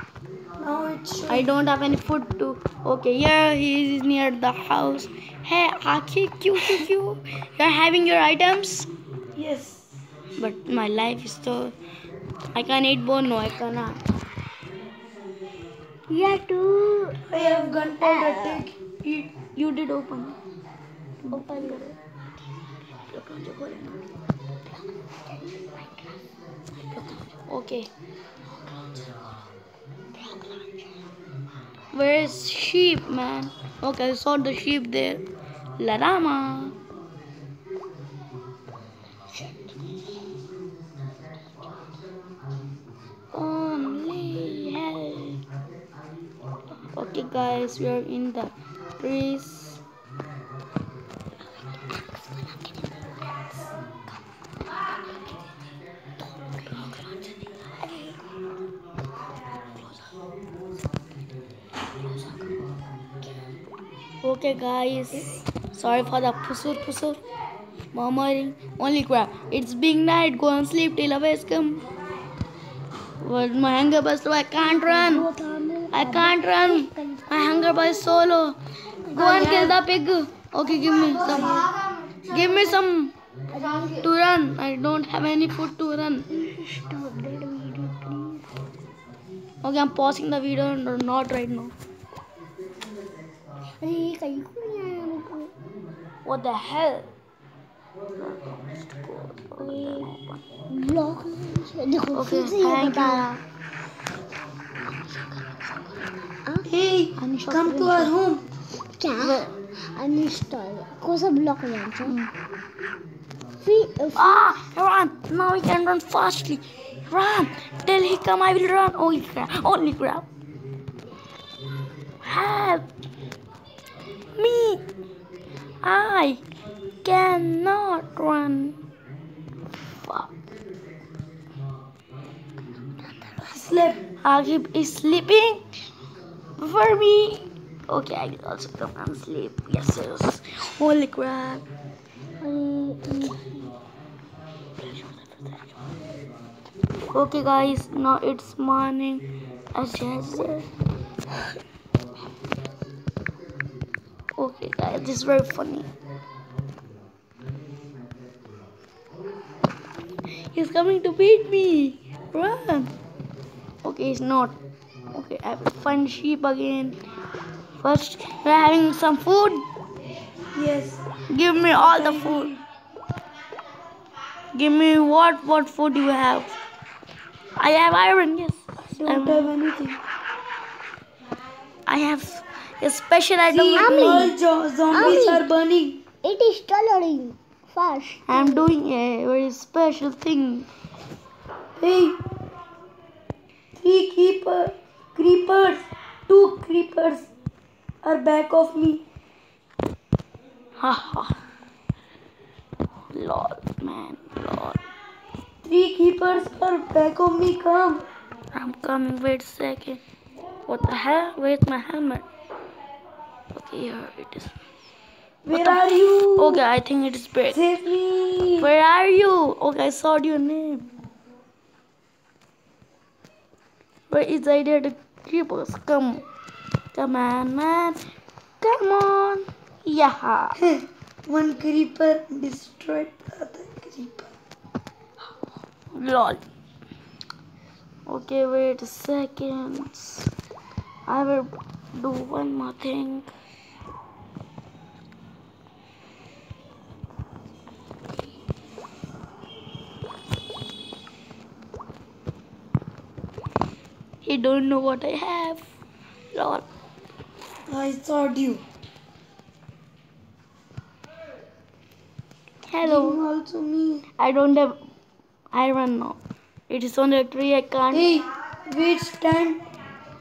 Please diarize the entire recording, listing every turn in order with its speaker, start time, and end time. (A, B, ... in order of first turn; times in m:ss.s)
0:00.6-0:01.5 A
0:01.3-0:08.9 B
0:09.4-0:09.9 A
0:10.4-0:11.7 B
0:12.5-0:14.0 B
0:16.1-0:18.6 C
0:17.3-0:19.3 A
0:19.6-0:20.4 B
0:21.3-0:22.0 B
0:21.3-0:21.8 C
0:23.1-0:24.0 B
0:26.9-0:27.9 B
0:31.9-0:35.3 B
0:35.8-0:36.8 B
0:43.3-0:45.4 B
0:46.9-0:49.8 B
0:57.8-0:58.2 C
1:04.2-1:07.2 B
1:07.9-1:11.8 B
1:13.2-1:15.3 B
1:14.6-1:18.3 C
1:15.9-1:18.6 B
1:19.1-1:19.8 C
1:19.1-1:21.7 B
1:19.2-1:19.8 A
1:21.1-1:22.8 C
1:21.3-1:21.7 A
1:22.3-1:23.1 B
1:23.5-1:24.1 C
1:24.0-1:26.3 B
1:26.3-1:28.5 C
1:29.6-1:31.7 B
1:33.8-1:35.5 C
1:36.2-1:37.1 B
1:38.2-1:40.4 B
1:39.6-1:40.1 C
1:40.7-1:43.3 C
1:42.2-1:43.4 B
1:45.2-1:45.9 B
1:46.7-1:48.4 A
1:47.2-1:48.1 B
1:49.0-1:52.2 C
1:49.2-1:49.5 B
1:53.6-1:54.5 C
1:54.2-2:00.3 B
2:02.2-2:02.9 B
2:04.4-2:04.8 B
2:05.8-2:06.4 B
2:07.0-2:08.8 B
2:10.0-2:10.3 B
2:13.5-2:14.0 A
2:14.2-2:15.6 B
2:16.6-2:21.7 B
2:22.4-2:23.7 C
2:24.8-2:25.6 B
2:27.1-2:30.7 B
2:34.4-2:35.9 B
2:40.5-2:42.9 B
2:43.8-2:44.6 B
2:45.1-2:47.0 B
2:47.8-2:49.7 B
2:50.6-2:51.0 A
2:51.3-2:52.5 B
2:51.7-2:52.6 A
2:54.5-2:56.5 B
2:57.6-2:59.5 B
2:59.0-3:00.0 A
3:01.9-3:04.3 B
3:03.5-3:06.0 A
3:03.8-3:04.4 C
3:04.9-3:05.5 C
3:06.2-3:08.6 C
3:08.3-3:10.7 B
3:11.8-3:12.2 A
3:13.8-3:17.3 A
3:18.0-3:19.0 A
3:20.8-3:21.4 B
3:23.1-3:24.8 B
3:25.6-3:28.1 A
3:28.5-3:30.0 B
3:30.7-3:32.3 B
3:33.5-3:34.5 B
3:35.4-3:36.6 A
3:35.5-3:37.6 B
3:37.5-3:38.7 A
3:38.6-3:40.9 B
3:44.1-3:46.2 B
3:46.9-3:48.0 B
3:48.6-3:50.6 B
3:50.6-3:54.3 A
3:55.9-3:56.4 B
3:58.1-4:00.3 B
4:01.1-4:03.3 B
4:14.2-4:15.6 B
4:16.3-4:16.6 B
4:17.7-4:18.6 A
4:22.7-4:23.2 B
4:22.8-4:24.0 A
4:24.2-4:24.8 B
4:25.5-4:26.2 B
4:26.7-4:28.1 B
4:27.9-4:29.6 A